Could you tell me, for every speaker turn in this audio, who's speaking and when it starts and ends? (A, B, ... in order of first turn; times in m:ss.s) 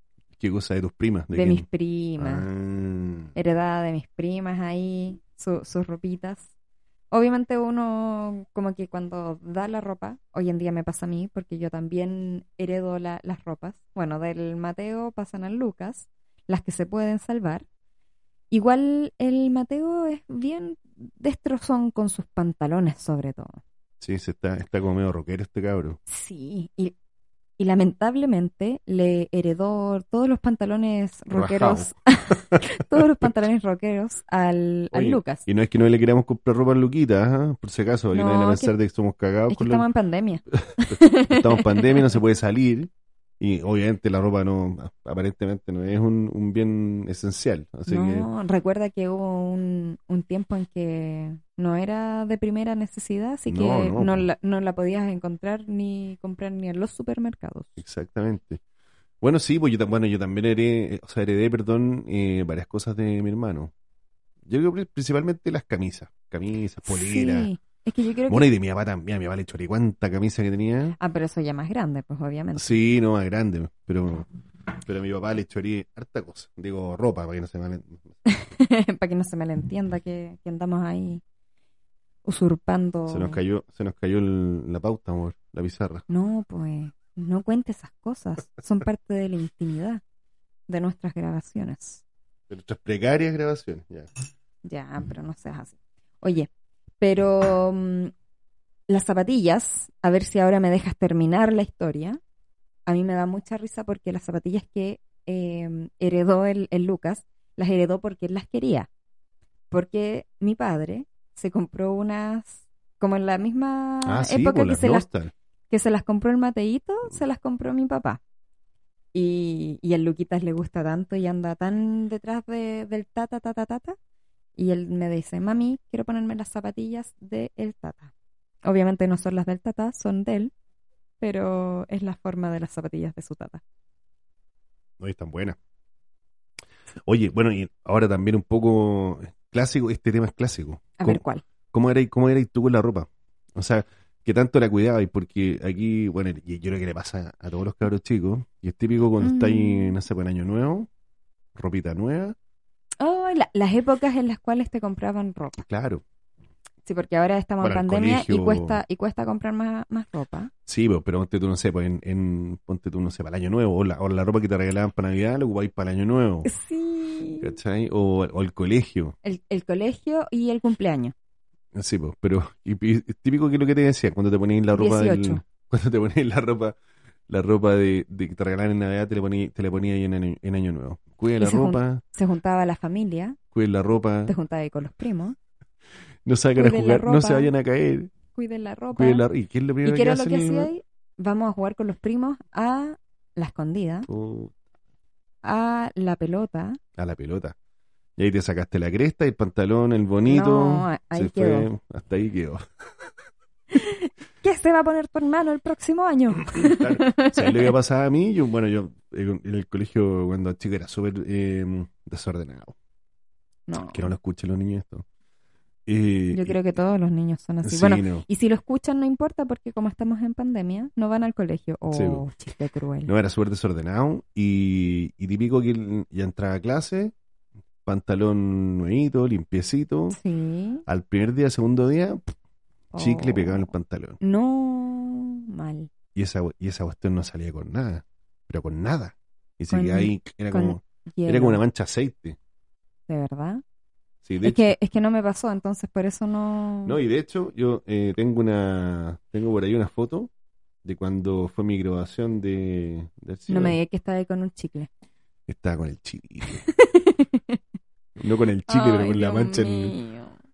0:00.4-0:01.6 A
0:01.3-0:02.4 B
0:02.2-0:03.3 A
0:03.3-0:06.5 B
0:07.1-0:17.6 B
0:18.5-0:23.6 B
0:24.0-0:26.0 A
0:26.1-0:26.9 B
0:27.6-0:35.4 B
0:31.3-0:31.9 A
0:34.9-0:39.8 A
0:38.1-0:38.7 B
0:39.5-0:42.0 B
0:40.7-0:48.3 A
0:47.9-0:57.8 B
0:53.5-0:54.3 A
0:57.8-0:58.6 A
0:59.2-1:03.7 A
1:04.5-1:07.5 A
1:06.8-1:08.5 B
1:08.3-1:11.0 A
1:11.0-1:12.8 B
1:12.5-1:14.3 A
1:14.8-1:18.1 A
1:18.2-1:21.2 B
1:22.2-1:23.4 B
1:23.1-1:26.0 A
1:26.1-1:30.0 B
1:30.7-1:32.0 B
1:32.5-1:34.1 A
1:34.6-1:36.5 B
1:37.0-1:38.1 B
1:38.9-1:42.2 B
1:42.8-1:48.9 B
1:49.7-1:55.0 B
1:54.0-1:55.3 A
1:55.7-1:58.2 B
1:59.1-2:04.0 B
2:04.6-2:08.1 B
2:08.6-2:10.5 B
2:11.2-2:13.6 B
2:15.0-2:15.6 A
2:17.1-2:30.9 A
2:21.0-2:21.4 B
2:29.2-2:30.0 B
2:31.6-2:32.4 A
2:33.0-2:35.6 B
2:35.6-2:36.0 A
2:36.8-2:40.5 B
2:37.6-2:38.8 A
2:40.6-2:46.5 A
2:46.4-2:47.5 B
2:47.4-2:49.1 A
2:49.2-2:51.1 B
2:51.7-2:56.8 A
2:54.7-2:55.4 B
2:57.3-3:02.0 A
3:01.4-3:03.4 B
3:03.5-3:04.3 A
3:04.3-3:05.3 B
3:06.2-3:08.1 A
3:06.6-3:07.5 B
3:08.3-3:09.2 B
3:08.9-3:10.7 A
3:09.8-3:14.1 B
3:14.1-3:14.5 A
3:15.4-3:16.8 B
3:17.0-3:17.5 A
3:18.2-3:22.6 A
3:20.2-3:21.7 B
3:23.7-3:27.7 B
3:26.5-3:32.7 A
3:33.7-3:34.1 B
3:33.8-3:35.0 A
3:35.8-3:36.6 A
3:36.3-3:43.1 B
3:37.6-3:38.3 A
3:41.9-3:42.2 A
3:43.1-3:47.1 A
3:47.8-3:50.2 A
3:50.1-3:50.8 B
3:50.8-3:52.3 A
3:52.9-3:55.9 B
3:53.0-3:54.2 A
3:56.1-4:02.4 A
3:59.7-4:01.6 B
4:03.1-4:03.6 B
4:04.2-4:04.8 A
4:04.4-4:07.0 B
4:06.8-4:10.3 A
4:10.8-4:13.8 A
4:13.5-4:14.9 B
4:15.5-4:16.6 A
4:16.5-4:17.6 B
4:18.2-4:20.0 A
4:18.7-4:20.3 B